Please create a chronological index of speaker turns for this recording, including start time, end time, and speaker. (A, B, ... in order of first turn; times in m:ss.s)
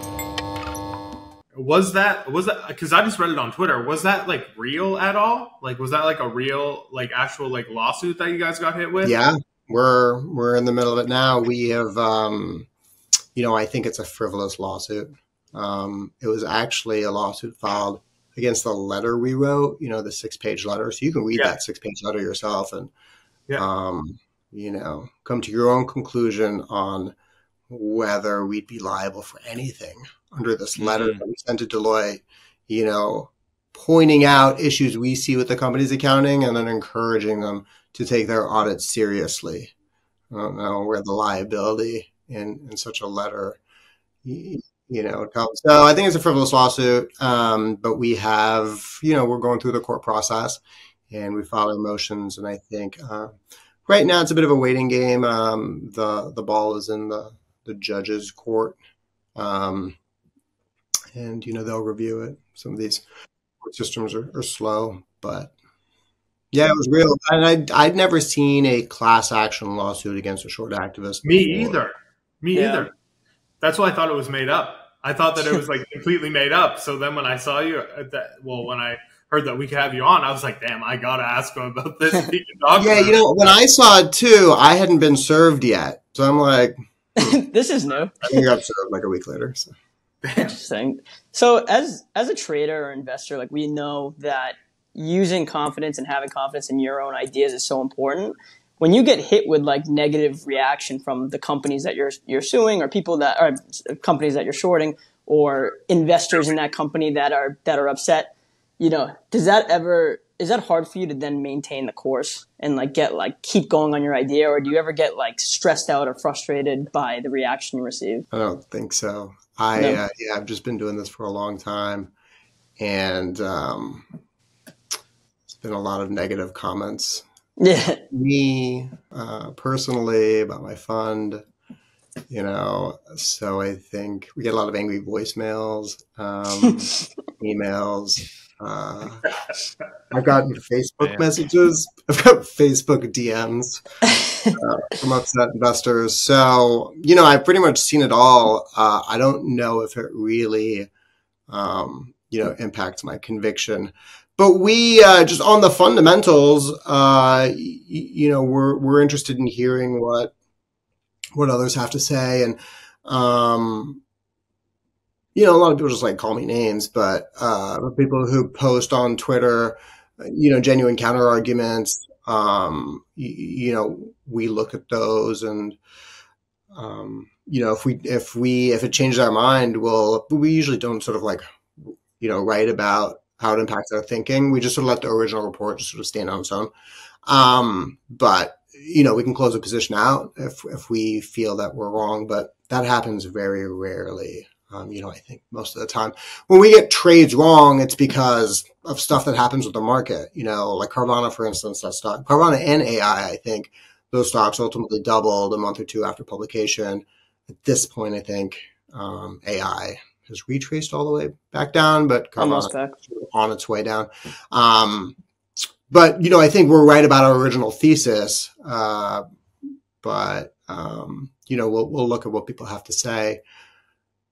0:01.5-0:09.1 A
0:09.0-0:12.7 B
0:13.3-0:22.9 B
0:23.6-0:27.1 B
0:27.7-0:39.7 B
0:40.3-0:43.6 B
0:44.2-0:53.3 B
0:53.8-0:58.8 B
0:59.4-1:00.0 B
1:01.1-1:03.0 B
1:03.6-1:05.5 B
1:06.5-1:11.8 B
1:11.2-1:12.9 A
1:12.5-1:12.9 C
1:13.6-1:23.2 A
1:22.8-1:27.4 B
1:27.2-1:28.5 C
1:28.2-1:29.7 B
1:30.2-1:30.5 A
1:30.4-1:58.2 C
1:58.3-2:02.1 B
2:02.8-2:04.0 B
2:05.5-2:07.2 B
2:07.6-2:08.0 C
2:08.1-2:11.4 B
2:12.3-2:19.3 B
2:20.1-2:23.8 B
2:24.1-2:24.5 C
2:24.5-2:30.9 B
2:31.5-2:40.3 B
2:41.3-2:44.0 B
2:45.3-2:55.8 B
2:56.7-3:06.7 B
3:07.2-3:35.2 B
3:32.4-3:33.0 C
3:35.9-3:39.2 B
3:40.0-3:43.4 B